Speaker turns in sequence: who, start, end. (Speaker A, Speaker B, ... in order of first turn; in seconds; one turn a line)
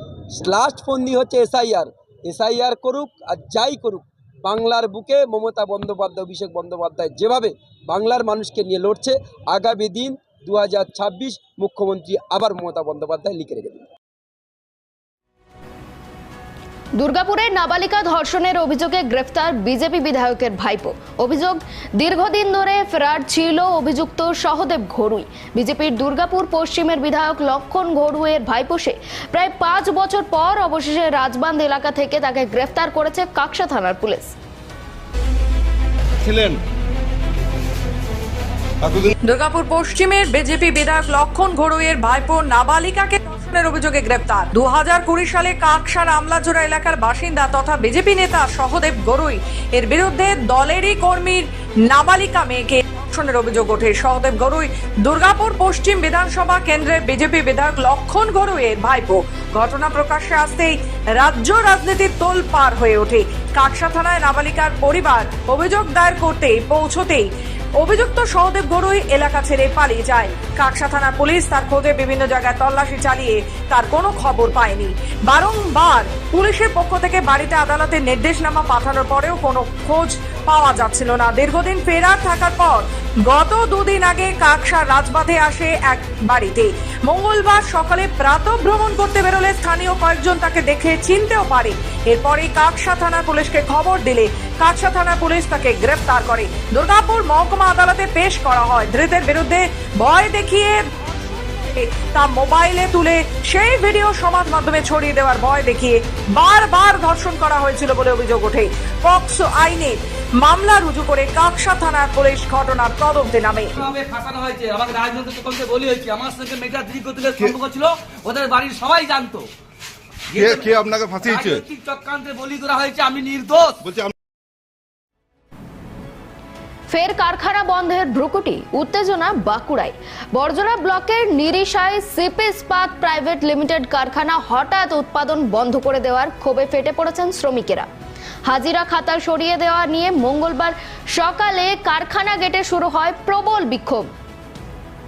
Speaker A: 0.3-13.9
Speaker B: 17.0-34.3
Speaker C: 36.2-36.6
Speaker D: 39.2-113.8
Speaker E: 113.8-119.5
Speaker E: 120.3-123.8
Speaker C: 120.3-121.6
Speaker C: 123.8-124.1
Speaker B: 126.9-137.9
Speaker B: 138.5-144.1